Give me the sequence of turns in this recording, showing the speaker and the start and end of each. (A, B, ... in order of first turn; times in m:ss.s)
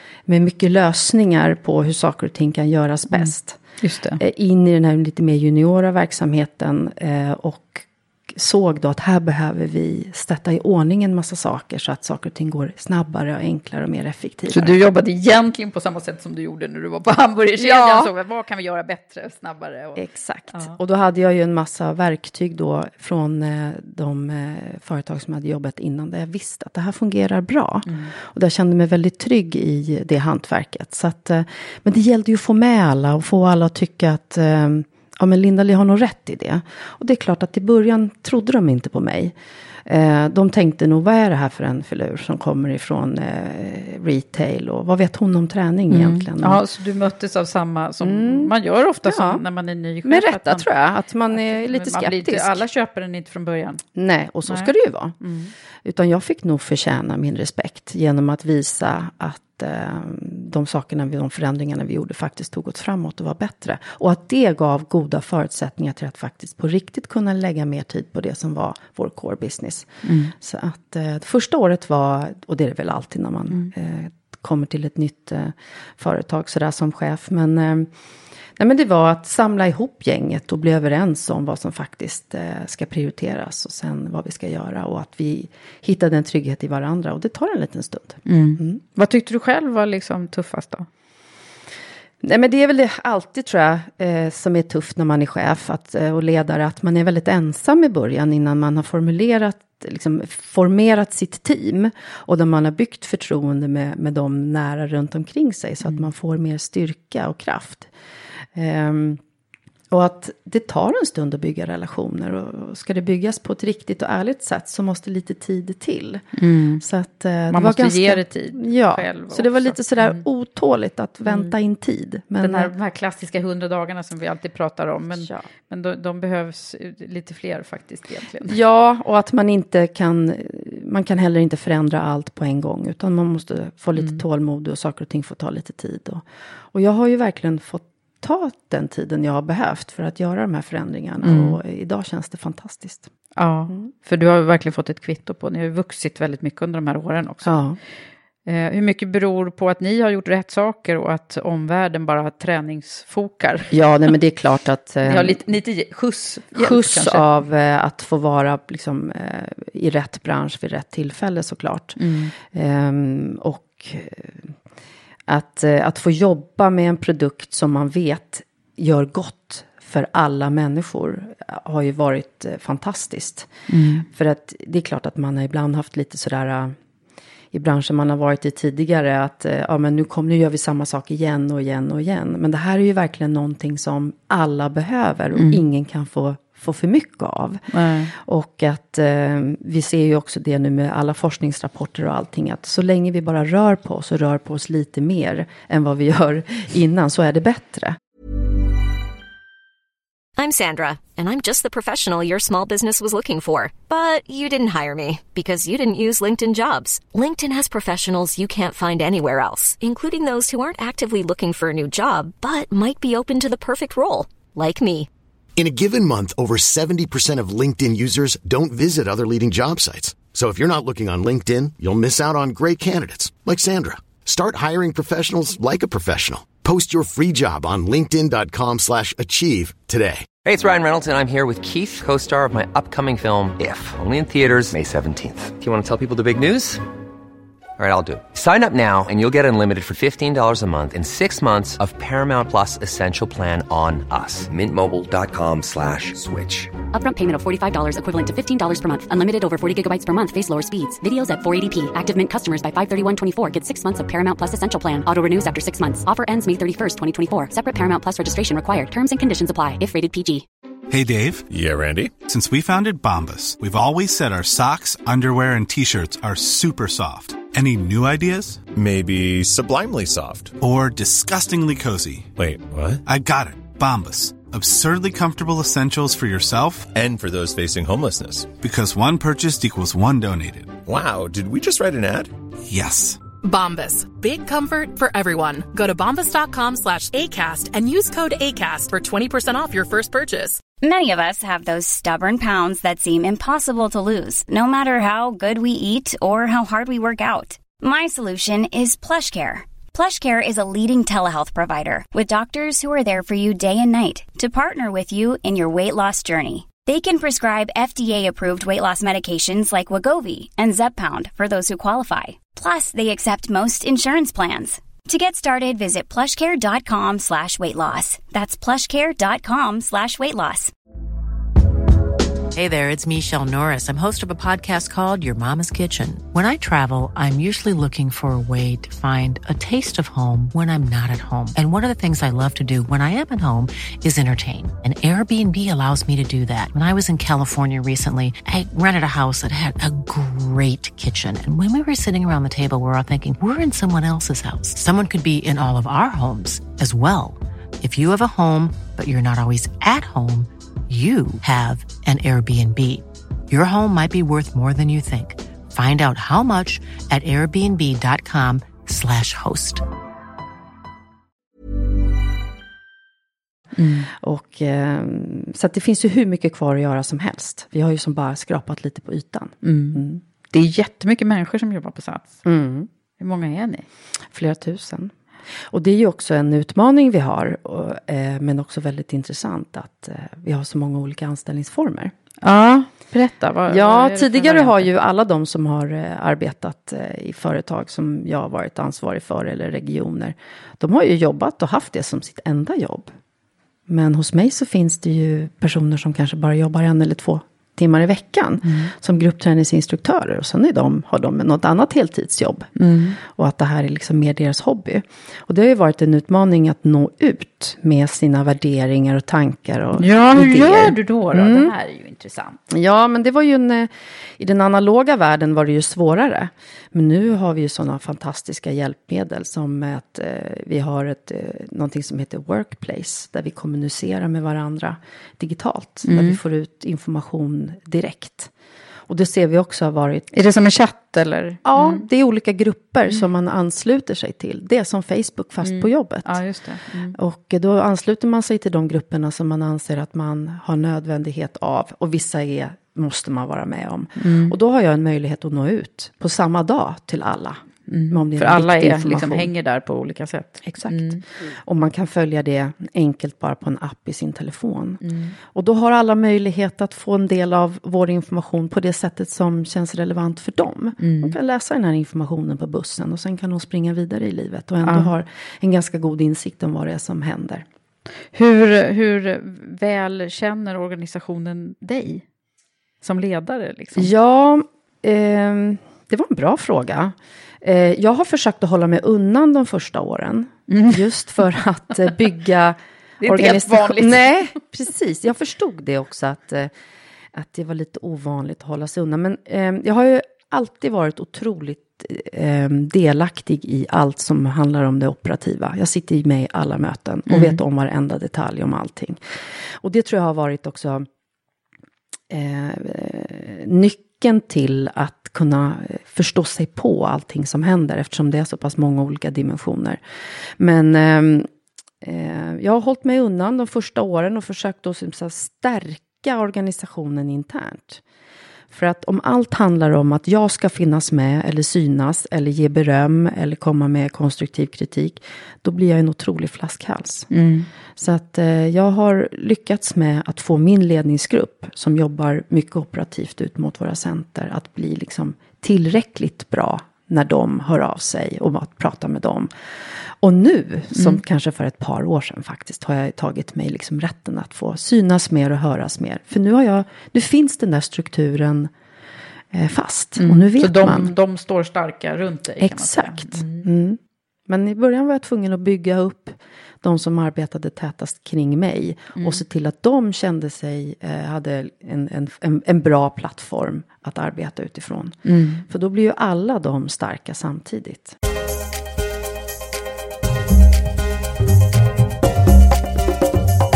0:00.3-0:03.6 A
0:03.1-0:04.2 B
0:04.2-0:14.8 A
0:14.5-0:20.0 B
0:17.6-0:18.1 A
0:20.0-0:39.3 A
0:27.8-0:28.1 B
0:39.8-0:46.6 A
0:45.9-0:50.7 B
0:48.0-0:48.5 A
0:49.0-0:49.4 A
0:50.0-0:52.6 A
0:51.3-0:53.8 B
0:53.9-0:55.2 A
0:54.5-0:55.5 B
0:55.8-1:17.9 A
1:10.0-1:10.3 B
1:18.6-1:28.8 A
1:28.3-1:30.9 B
1:32.2-1:47.9 A
1:48.5-1:49.2 A
1:49.9-1:56.2 A
1:56.4-1:56.8 B
1:56.8-2:02.7 A
1:57.5-2:00.2 B
2:01.3-2:01.6 B
2:02.4-2:08.6 B
2:05.1-2:05.4 A
2:08.5-2:23.1 A
2:21.2-2:21.6 B
2:23.4-2:27.6 B
2:27.4-2:27.8 A
2:28.4-2:33.7 B
2:33.7-2:35.4 A
2:35.0-2:37.3 B
2:36.5-2:44.5 A
2:42.0-2:42.3 B
2:45.3-2:53.5 A
2:53.7-2:54.0 B
2:54.1-2:56.7 A
2:57.5-3:07.6 A
3:05.3-3:05.6 B
3:07.7-3:08.1 B
3:08.1-3:18.0 A
3:20.4-3:35.1 C
3:35.6-3:50.3 D
3:50.4-3:56.8 E
3:57.8-4:06.7 E
4:06.9-4:20.4 F
4:20.9-4:21.5 G
4:21.5-4:22.1 H
4:22.2-4:28.6 G
4:28.7-4:30.6 H
4:30.6-4:32.3 G
4:32.4-4:33.0 H
4:33.0-4:36.9 G
4:36.9-4:38.5 H
4:38.5-4:40.8 G
4:40.8-4:42.3 H
4:42.6-4:43.2 G
4:43.4-4:50.6 I
4:50.8-5:20.7 J
5:22.5-5:59.8 K
6:03.8-6:04.1 B
6:04.2-6:10.2 A
6:09.6-6:12.4 B
6:12.4-6:12.9 A
6:13.2-6:13.8 B
6:14.3-6:15.1 A
6:15.7-6:22.1 A
6:22.4-6:24.9 B
6:23.7-6:33.1 A
6:33.9-6:42.7 A
6:38.6-6:38.9 B
6:42.8-6:43.2 B
6:43.2-6:51.7 A
6:50.0-6:52.6 B
6:52.7-7:08.5 A
7:06.0-7:06.4 B
7:09.1-7:10.3 A
7:10.3-7:12.0 B
7:11.6-7:16.4 A
7:15.6-7:17.2 B
7:17.1-7:29.5 A
7:24.2-7:24.5 B
7:27.9-7:31.2 B
7:30.6-7:35.0 A
7:35.0-7:35.4 B
7:35.5-7:47.6 A
7:41.0-7:41.4 B
7:44.8-7:45.1 B
7:48.3-7:52.2 B
7:53.0-7:54.1 B
7:54.0-8:06.7 A
8:00.7-8:01.1 B
8:03.2-8:04.4 B
8:07.3-8:19.2 A
8:17.3-8:17.6 B
8:19.8-8:21.1 A
8:22.3-8:30.0 A
8:30.6-8:31.5 A
8:32.0-8:38.0 A
8:38.7-8:47.3 A
8:47.3-8:47.7 B
8:48.0-8:59.5 A
9:00.2-9:08.7 A
9:00.9-9:01.2 B
9:09.5-9:11.1 A
9:10.2-9:13.6 B
9:12.6-9:28.2 A
9:19.2-9:19.4 B
9:25.2-9:25.6 B